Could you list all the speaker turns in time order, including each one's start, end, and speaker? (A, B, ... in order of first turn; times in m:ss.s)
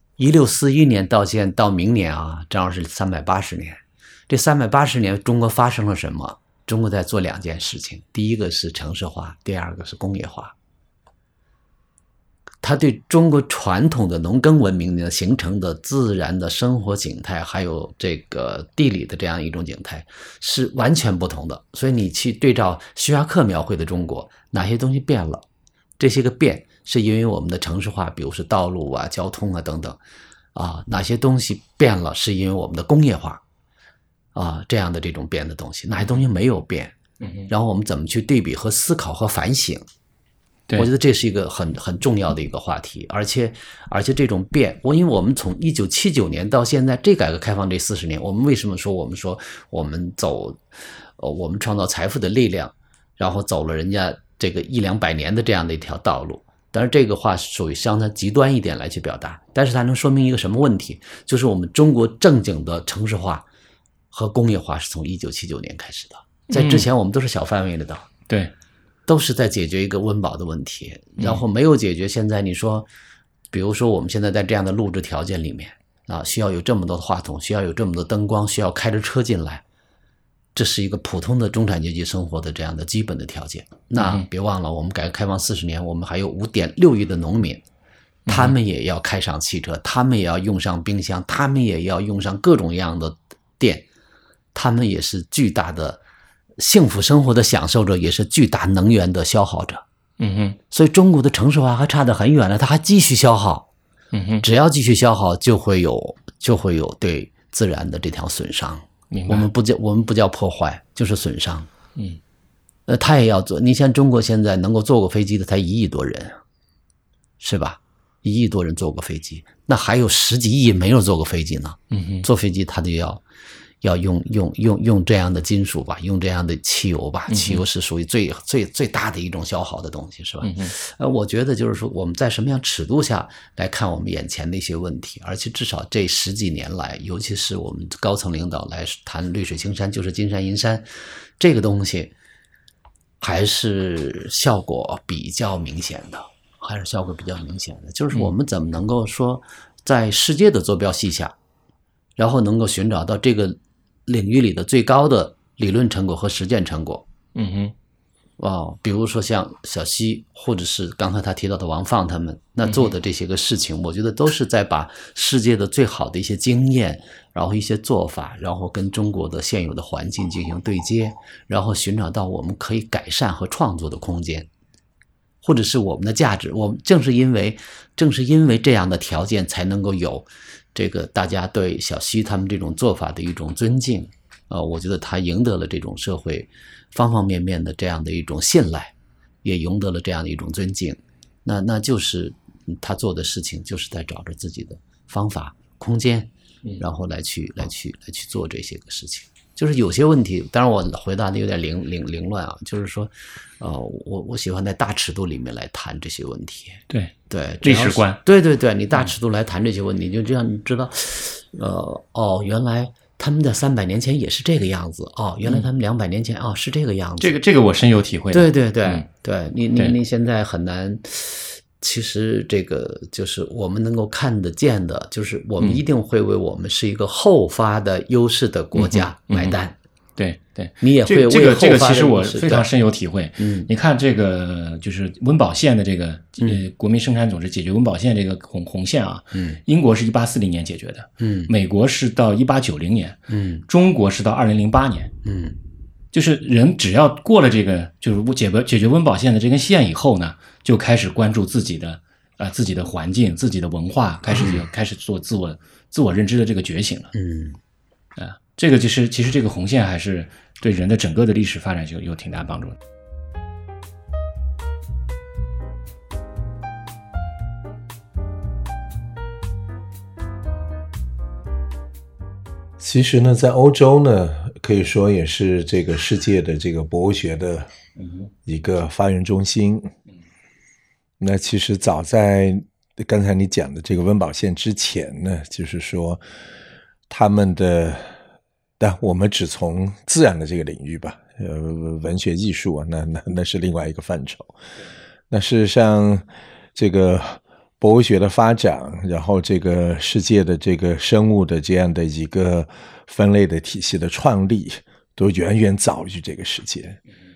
0:00.2-0:10.6 A
0:12.6-0:25.4 A
0:26.0-0:30.0 A
0:30.6-0:33.4 A
0:34.4-0:37.0 A
0:37.2-0:37.5 B
0:37.5-0:39.8 A
0:40.8-0:50.6 A
0:51.2-1:03.4 A
1:04.1-1:08.1 A
1:06.5-1:06.9 B
1:09.1-1:12.9 A
1:11.2-1:11.4 B
1:13.5-1:19.6 A
1:20.6-1:27.6 A
1:24.0-1:24.3 B
1:28.3-1:28.6 B
1:28.3-1:33.9 A
1:34.6-1:36.0 A
1:36.6-1:39.8 A
1:40.2-1:40.6 B
1:40.7-1:43.7 A
1:44.1-1:44.4 B
1:44.4-1:51.7 A
1:49.1-1:49.5 B
1:52.9-1:56.4 A
1:57.4-2:03.2 A
2:01.9-2:02.3 B
2:03.8-2:20.9 A
2:07.3-2:07.6 B
2:10.4-2:10.7 B
2:21.4-2:22.1 A
2:23.2-2:31.4 A
2:32.2-2:37.0 A
2:37.4-2:37.7 B
2:38.4-2:54.5 A
2:42.7-2:42.9 B
2:55.4-3:16.3 A
3:16.8-3:37.3 A
3:26.9-3:28.2 B
3:37.2-3:39.0 B
3:38.3-3:49.8 A
3:48.8-3:49.6 B
3:50.2-4:05.1 B
3:50.8-3:52.7 A
3:53.4-3:53.7 A
3:59.3-3:59.6 A
4:01.2-4:01.5 A
4:03.3-4:03.6 A
4:05.2-4:05.6 A
4:06.1-4:17.1 B
4:17.1-4:17.6 A
4:18.2-4:22.8 B
4:32.8-4:37.7 C
4:38.0-4:38.3 B
4:38.4-4:39.9 C
4:41.2-4:46.2 C
4:47.1-4:48.2 C
4:48.8-4:54.5 C
4:55.3-5:07.0 C